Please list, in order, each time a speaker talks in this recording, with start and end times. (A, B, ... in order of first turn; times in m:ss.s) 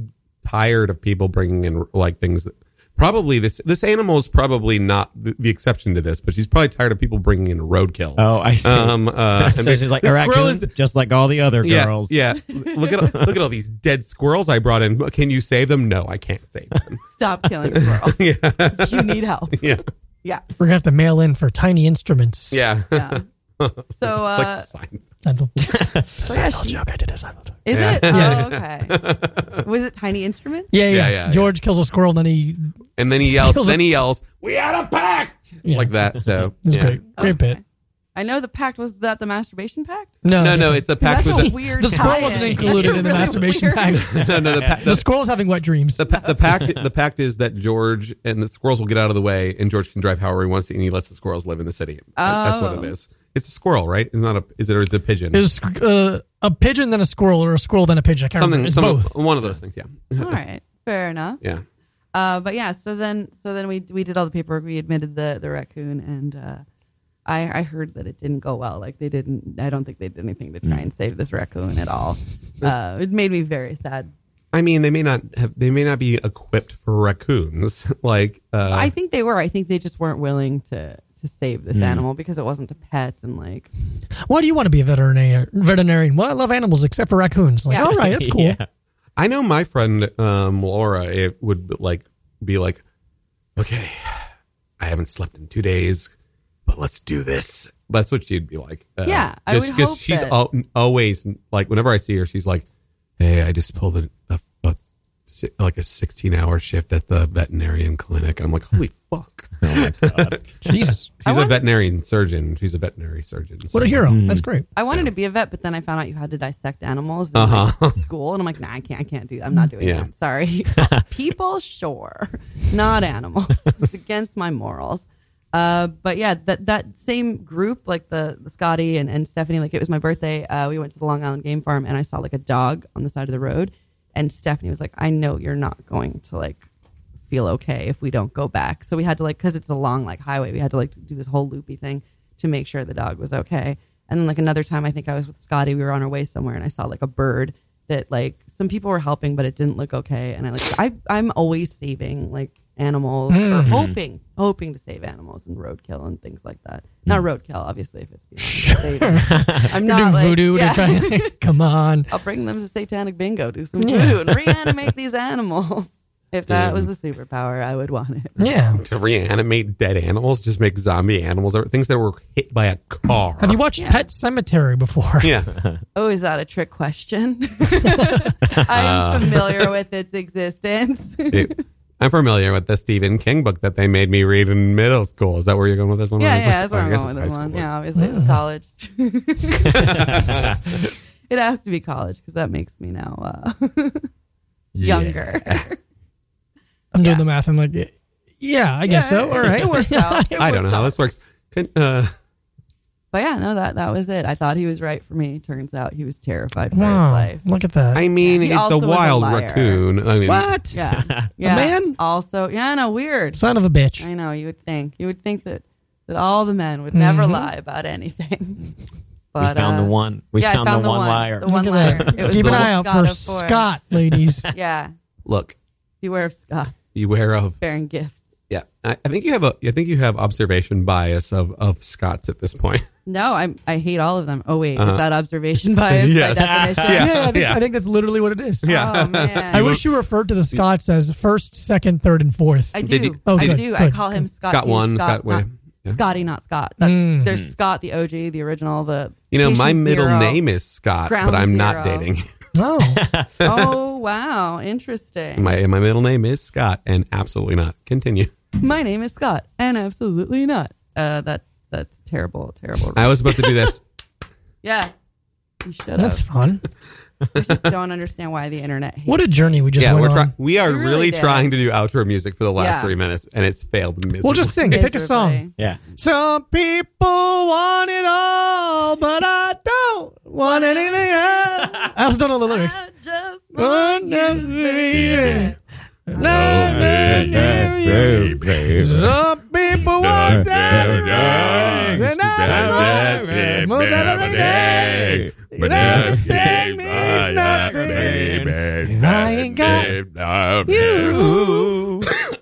0:00.4-0:10.7 A
0:08.2-0:12.1 B
0:11.6-0:17.0 A
0:12.5-0:13.0 C
0:13.0-0:13.4 B
0:17.1-0:19.6 C
0:17.7-0:19.8 A
0:20.6-0:22.6 D
0:22.5-0:25.0 A
0:22.9-0:23.2 C
0:23.9-0:24.7 C
0:25.2-0:28.5 D
0:25.7-0:26.1 B
0:26.2-0:26.8 C
0:27.6-0:29.0 C
0:27.7-0:29.6 A
0:29.6-0:30.7 C
0:30.7-0:33.8 D
0:30.9-0:31.5 A
0:33.0-0:37.0 A
0:35.6-0:35.9 D
0:36.6-0:37.6 D
0:37.2-0:37.6 C
0:38.1-0:40.2 C
0:40.2-0:46.0 D
0:40.3-0:41.7 A
0:41.0-0:44.2 C
0:41.9-0:43.1 B
0:43.9-0:45.0 A
0:44.4-0:44.8 B
0:46.0-0:55.4 A
0:46.1-0:46.3 C
0:52.2-0:52.9 C
0:55.3-0:59.2 D
0:58.4-1:00.4 A
1:00.2-1:01.4 C
1:02.1-1:06.6 C
1:07.2-1:14.1 C
1:14.5-1:18.9 A
1:18.6-1:23.7 C
1:21.7-1:22.0 B
1:24.2-1:28.6 D
1:27.7-1:28.6 B
1:29.2-1:32.8 A
1:33.6-1:34.2 A
1:34.8-1:36.1 A
1:36.7-1:42.6 A
1:39.0-1:40.4 C
1:43.2-1:44.8 A
1:45.3-1:50.4 A
1:49.6-1:50.8 B
1:50.6-1:51.1 D
1:51.2-1:51.6 C
1:51.2-1:54.1 A
1:53.7-1:54.6 D
1:54.0-1:54.4 B
1:54.7-2:16.6 C
1:57.4-1:58.0 A
1:59.8-2:00.1 A
2:17.3-2:41.4 C
2:33.3-2:33.8 D
2:33.6-2:34.0 B
2:38.4-2:42.1 D
2:39.2-2:39.6 B
2:42.1-2:48.4 C
2:43.8-2:44.7 D
2:46.5-2:46.9 A
2:48.4-2:48.8 D
2:48.7-2:53.6 A
2:53.4-2:55.4 D
2:53.8-2:54.1 C
2:55.2-2:55.5 A
2:55.9-3:01.6 C
2:58.5-2:59.7 A
3:01.3-3:07.6 A
3:06.2-3:10.4 C
3:08.0-3:08.4 D
3:09.8-3:10.2 B
3:10.2-3:10.5 A
3:11.3-3:14.1 C
3:14.7-3:15.6 A
3:14.8-3:15.8 C
3:16.9-3:20.4 D
3:17.0-3:17.2 C
3:18.8-3:21.0 C
3:20.3-3:22.1 A
3:23.1-3:27.4 C
3:26.7-3:28.0 D
3:27.9-3:30.5 A
3:28.2-3:29.8 C
3:30.2-3:30.8 D
3:30.7-3:33.4 C
3:30.9-3:31.3 B
3:31.4-3:32.0 D
3:33.3-3:34.1 D
3:34.0-3:38.7 C
3:36.9-3:37.5 D
3:39.3-3:43.7 C
3:39.4-3:42.3 B
3:41.4-3:44.5 D
3:42.3-3:42.7 A
3:44.5-3:44.9 C
3:45.2-3:45.5 A
3:46.0-3:46.8 C
3:46.9-3:47.6 A
3:47.6-3:48.2 C
3:48.5-3:52.8 A
3:53.0-3:57.2 C
3:54.8-3:55.0 A
3:55.9-3:57.6 A
3:56.5-3:56.8 B
3:56.9-3:58.7 D
3:58.6-3:59.8 A
3:58.6-3:59.8 C
3:59.5-4:04.2 D
4:02.7-4:10.4 C
4:02.8-4:03.7 A
4:04.4-4:06.0 A
4:06.8-4:07.3 D
4:09.3-4:12.3 A
4:11.0-4:12.1 C
4:12.5-4:13.0 D
4:12.9-4:13.4 B
4:13.4-4:15.6 C
4:15.4-4:18.3 A
4:18.6-4:23.7 C
4:23.0-4:23.8 A
4:24.6-4:24.9 C
4:25.6-4:26.2 C
4:26.0-4:26.6 D
4:27.3-4:29.6 C
4:29.1-4:30.3 D
4:29.8-4:34.8 A
4:30.6-4:31.5 C
4:32.6-4:32.9 C
4:34.2-4:35.4 D
4:34.6-4:35.5 C
4:36.0-4:42.8 D
4:40.4-4:45.6 C
4:43.6-4:45.5 D
4:45.0-4:45.4 A
4:46.1-4:59.9 D
4:46.1-4:47.7 C
4:46.2-4:48.8 A
4:46.8-4:49.1 B
4:50.0-5:01.4 A
4:50.3-4:59.9 B
5:00.7-5:01.4 D
5:00.7-5:02.1 B